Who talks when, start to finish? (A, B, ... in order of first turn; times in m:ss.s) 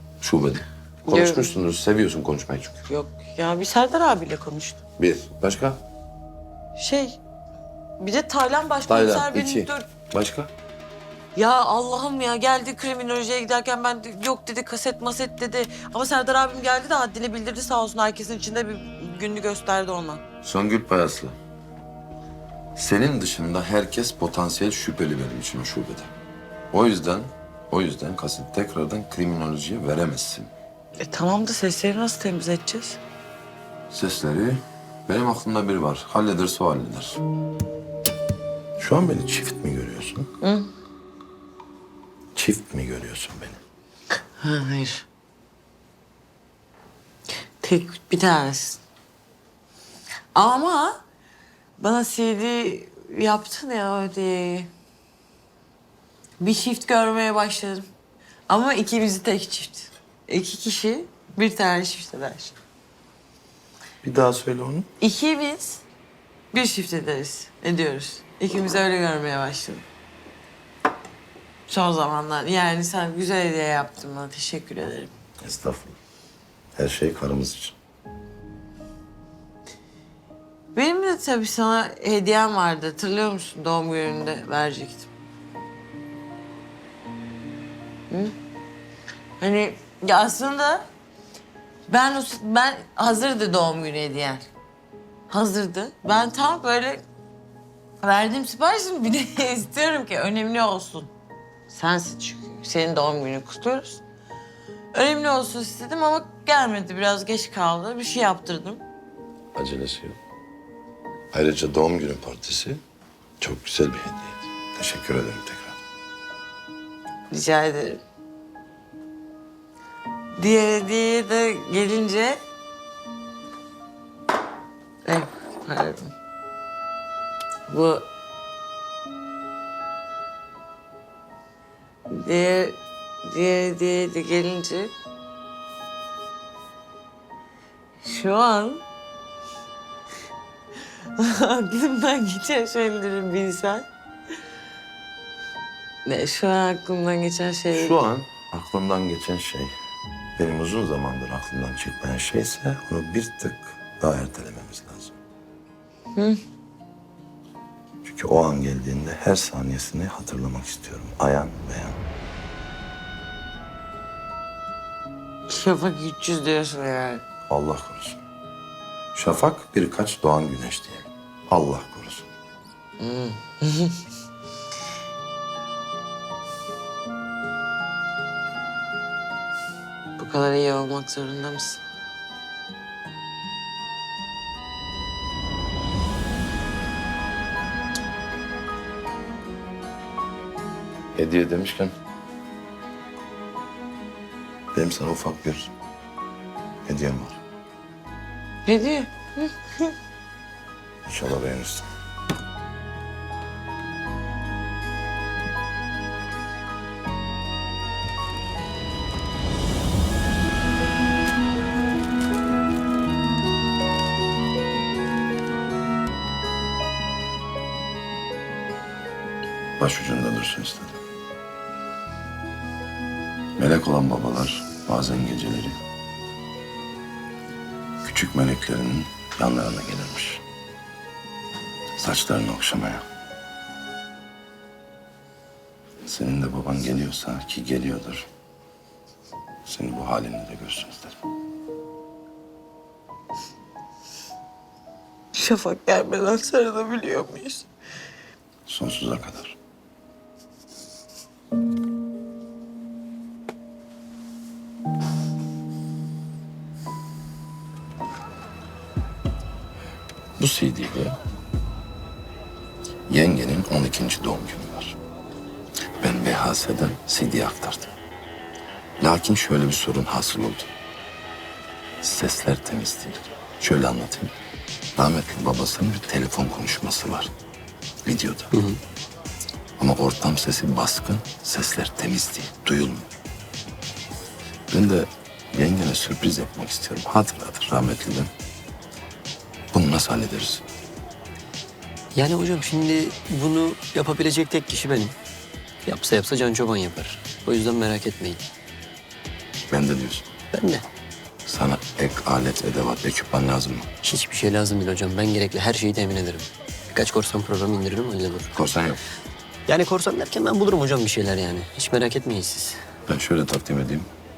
0:00.2-0:02.8 A
0:01.1-0:01.5 B
0:02.9-0:04.8 B
0:05.0-0:05.8 A
0:06.8-0:07.2 B
0:08.0-0:09.9 B
0:08.9-0:10.5 A
0:11.4-0:20.2 B
0:20.4-0:21.4 A
0:22.8-0:26.1 A
0:26.7-0:30.5 A
0:31.0-0:33.0 B
0:33.9-0:37.2 A
0:38.8-0:40.3 A
0:40.4-0:40.7 B
0:42.4-0:43.6 A
0:44.4-0:45.1 B
0:47.6-0:48.8 B
0:50.3-0:51.0 B
0:51.8-0:54.7 B
0:56.4-0:57.9 B
0:58.5-1:02.6 B
1:04.0-1:04.9 A
1:05.0-1:05.8 B
1:06.5-1:09.8 B
1:11.7-1:15.1 B
1:15.4-1:16.0 A
1:16.8-1:17.8 A
1:20.7-1:25.1 B
1:29.4-1:30.9 B
1:31.9-1:34.5 B
1:35.3-1:37.0 B
1:38.0-1:41.1 B
1:41.7-1:44.0 B
1:44.9-1:48.8 B
1:49.6-1:50.2 A
1:51.3-1:52.8 A
1:53.4-1:55.8 A
1:57.3-1:58.0 B
2:00.4-2:02.4 B
2:05.0-2:06.1 B
2:07.7-2:08.1 B
2:12.1-2:14.9 B
2:18.0-2:18.8 B
2:21.2-2:23.9 B
2:26.1-2:28.0 B
2:27.7-2:29.7 A
2:30.4-2:35.2 A
2:38.0-2:42.0 A
2:45.5-2:47.2 B
2:47.5-2:48.2 A
2:49.1-2:52.3 A
2:53.0-2:54.0 B
3:00.2-3:01.8 B
3:11.2-3:11.9 A
3:14.7-3:15.7 A
3:16.8-3:17.4 A
3:18.7-3:19.9 B
3:21.1-3:21.8 A
3:39.8-3:41.0 A
3:43.6-3:45.8 A
3:48.0-3:50.4 A
3:52.0-3:53.0 A
3:56.0-3:58.3 A
3:59.7-4:01.2 A
4:05.3-4:07.7 B
4:08.7-4:09.6 A
4:20.4-4:21.2 A
4:23.1-4:25.0 A
4:26.0-4:27.9 A
4:29.0-4:30.7 A
4:32.0-4:34.3 A
4:35.0-4:37.3 A
4:38.0-4:38.6 A
4:38.5-4:38.8 C
4:39.8-4:43.1 A
4:44.7-4:48.3 A
4:49.7-4:50.6 A
4:52.2-4:55.2 C
4:55.9-4:58.4 C
4:59.7-5:00.3 A
5:00.5-5:00.8 C
5:01.5-5:03.9 A
5:04.0-5:08.5 C
5:08.6-5:09.0 A
5:09.7-5:12.8 C
5:13.1-5:14.1 A